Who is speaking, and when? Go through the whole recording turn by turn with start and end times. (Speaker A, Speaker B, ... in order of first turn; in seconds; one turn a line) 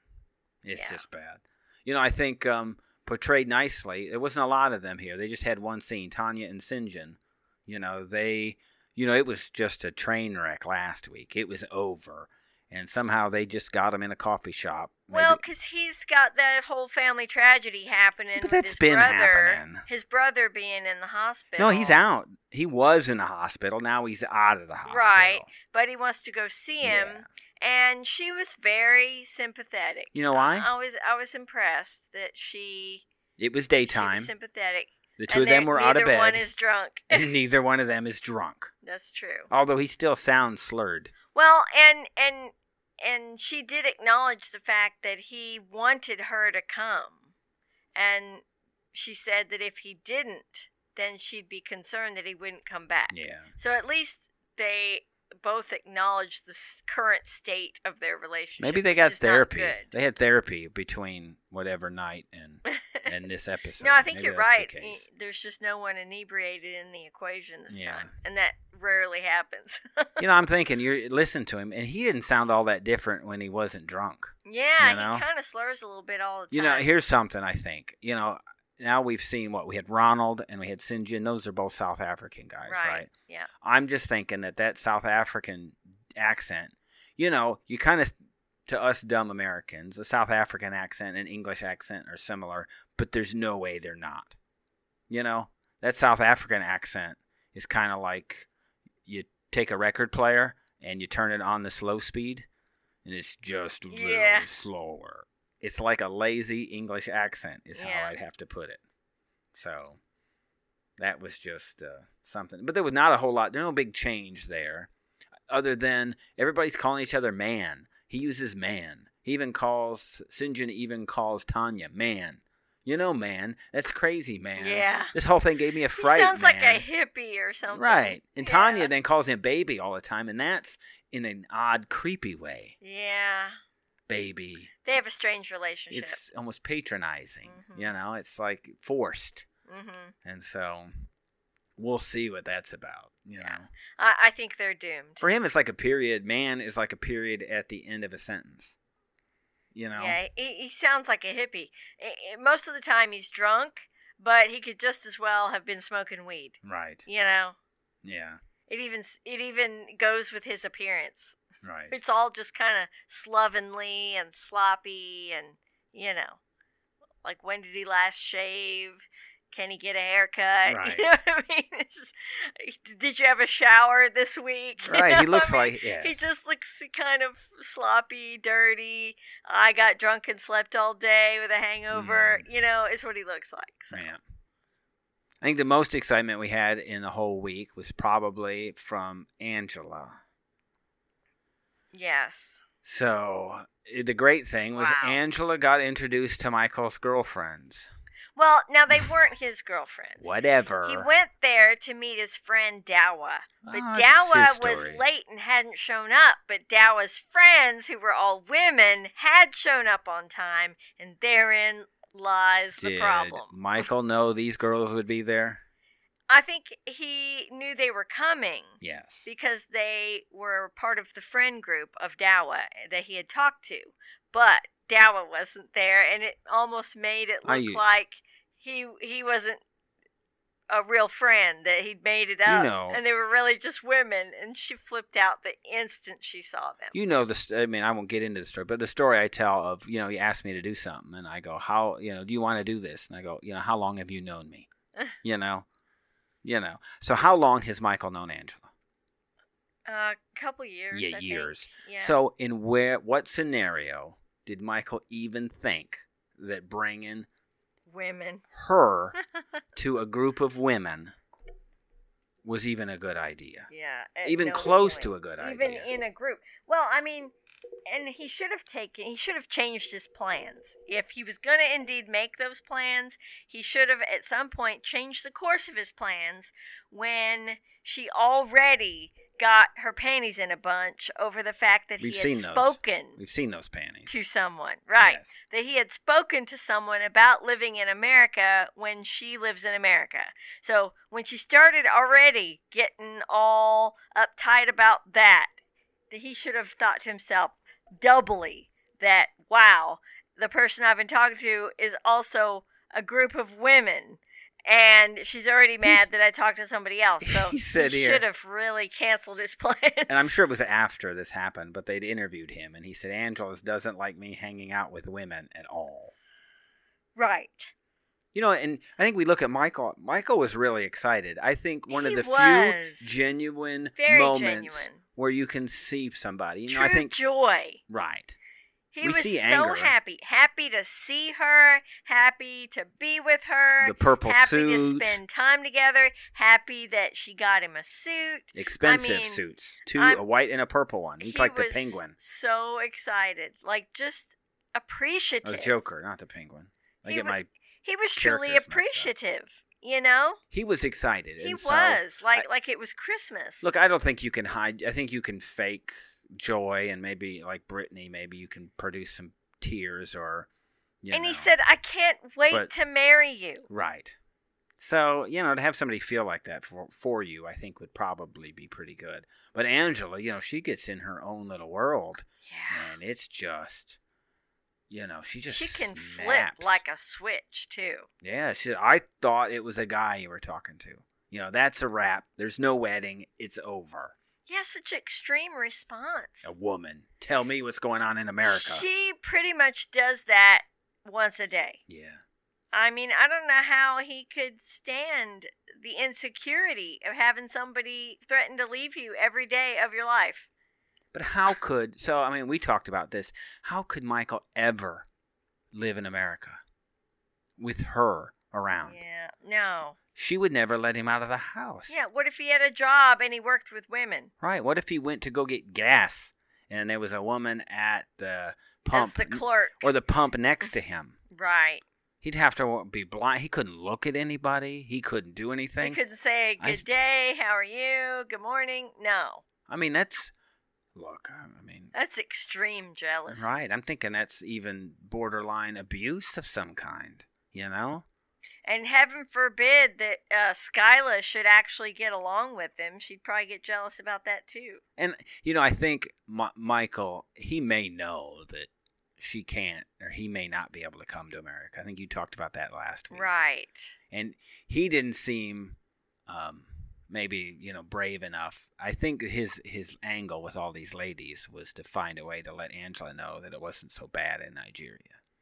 Speaker A: 0.6-15.5
Speaker B: 0.8-1.1
Speaker B: 15.1-22.0
Speaker A: 18.4-19.9
Speaker A: 21.6-25.5
Speaker B: 24.9-33.0
Speaker A: 26.8-27.3
Speaker A: 30.1-30.7
Speaker A: 33.4-34.3
Speaker B: 33.9-37.3
Speaker A: 35.2-36.5
Speaker A: 37.1-38.7
Speaker B: 38.8-39.5
Speaker A: 39.5-41.1
Speaker B: 41.3-47.2
Speaker B: 48.0-59.9
Speaker A: 53.1-53.5
Speaker A: 58.6-65.0
Speaker B: 62.7-63.1
Speaker B: 63.8-70.2
Speaker A: 67.7-68.1
Speaker A: 70.2-75.3
Speaker B: 74.5-76.9
Speaker A: 76.5-83.1
Speaker B: 82.7-83.5
Speaker A: 83.6-88.1
Speaker A: 88.7-94.4
Speaker A: 95.1-98.5
Speaker A: 99.0-102.5
Speaker A: 103.0-108.8
Speaker B: 103.9-104.5
Speaker B: 107.8-108.2
Speaker A: 109.5-110.0
Speaker A: 111.0-114.9
Speaker A: 115.5-126.8
Speaker B: 124.6-125.1
Speaker B: 126.0-128.9
Speaker A: 127.7-132.8
Speaker B: 132.8-133.6
Speaker A: 134.1-134.7
Speaker B: 134.8-136.2
Speaker A: 135.9-139.5
Speaker B: 137.5-137.9
Speaker B: 139.7-140.1
Speaker A: 140.2-141.0
Speaker A: 141.8-143.7
Speaker B: 143.4-145.2
Speaker A: 145.2-148.8
Speaker A: 149.7-150.2
Speaker B: 149.9-157.6
Speaker A: 156.6-157.1
Speaker A: 158.0-158.4
Speaker B: 158.7-161.4
Speaker A: 161.6-162.0
Speaker B: 161.9-166.4
Speaker B: 167.2-184.1
Speaker A: 170.7-171.1
Speaker A: 174.8-176.2
Speaker A: 181.9-182.5
Speaker A: 183.9-184.2
Speaker A: 185.4-190.2
Speaker B: 191.9-192.6
Speaker A: 192.8-197.9
Speaker B: 194.8-195.2
Speaker B: 198.4-200.3
Speaker A: 200.2-201.1
Speaker B: 200.8-213.5
Speaker A: 203.6-205.0
Speaker A: 212.8-215.6
Speaker B: 216.3-229.6
Speaker A: 218.8-219.3
Speaker A: 227.4-227.8
Speaker B: 230.7-236.9
Speaker A: 232.4-233.0
Speaker A: 236.9-244.7
Speaker A: 245.2-245.7
Speaker A: 246.4-248.7
Speaker B: 249.9-252.2
Speaker A: 250.9-257.3
Speaker B: 257.9-258.4
Speaker A: 258.5-259.2
Speaker A: 259.8-261.1
Speaker A: 262.4-263.7
Speaker B: 263.7-267.3
Speaker A: 264.2-265.9
Speaker B: 267.9-283.2
Speaker A: 282.0-284.2
Speaker B: 284.1-295.5
Speaker A: 285.0-285.4
Speaker B: 296.1-310.3
Speaker A: 307.2-308.2
Speaker A: 310.1-316.1
Speaker B: 317.2-317.7
Speaker A: 318.3-327.2
Speaker B: 321.9-323.2
Speaker B: 324.0-325.0
Speaker B: 326.7-327.8
Speaker A: 327.9-328.4
Speaker B: 328.9-339.4
Speaker A: 329.0-329.9
Speaker A: 333.8-335.2
Speaker A: 338.6-342.1
Speaker B: 339.9-340.2
Speaker B: 341.2-345.7
Speaker A: 345.4-347.5
Speaker B: 347.1-350.4
Speaker A: 348.2-349.1
Speaker A: 350.5-352.4
Speaker B: 351.4-353.6
Speaker A: 353.6-360.5
Speaker A: 361.0-361.6
Speaker B: 361.1-363.7
Speaker A: 363.7-364.2
Speaker A: 364.8-374.0
Speaker B: 372.5-372.9
Speaker A: 374.9-376.8
Speaker B: 375.5-378.1
Speaker A: 378.2-384.1
Speaker B: 384.5-386.5
Speaker A: 386.4-388.9
Speaker B: 388.4-391.8
Speaker A: 391.9-392.2
Speaker B: 392.7-400.5
Speaker A: 401.1-405.1
Speaker A: 405.7-406.6
Speaker A: 407.6-409.0
Speaker B: 408.8-410.0
Speaker A: 410.1-412.0
Speaker B: 411.9-414.3
Speaker A: 414.4-421.2
Speaker B: 418.9-419.9
Speaker B: 421.3-421.8
Speaker A: 422.2-426.0
Speaker B: 425.8-429.4
Speaker A: 426.6-426.8
Speaker A: 429.7-430.3
Speaker A: 430.9-431.9
Speaker B: 431.9-433.5
Speaker A: 433.3-438.1
Speaker B: 438.6-444.8
Speaker A: 445.0-453.3
Speaker B: 453.1-453.9
Speaker A: 454.1-455.8
Speaker A: 456.3-465.2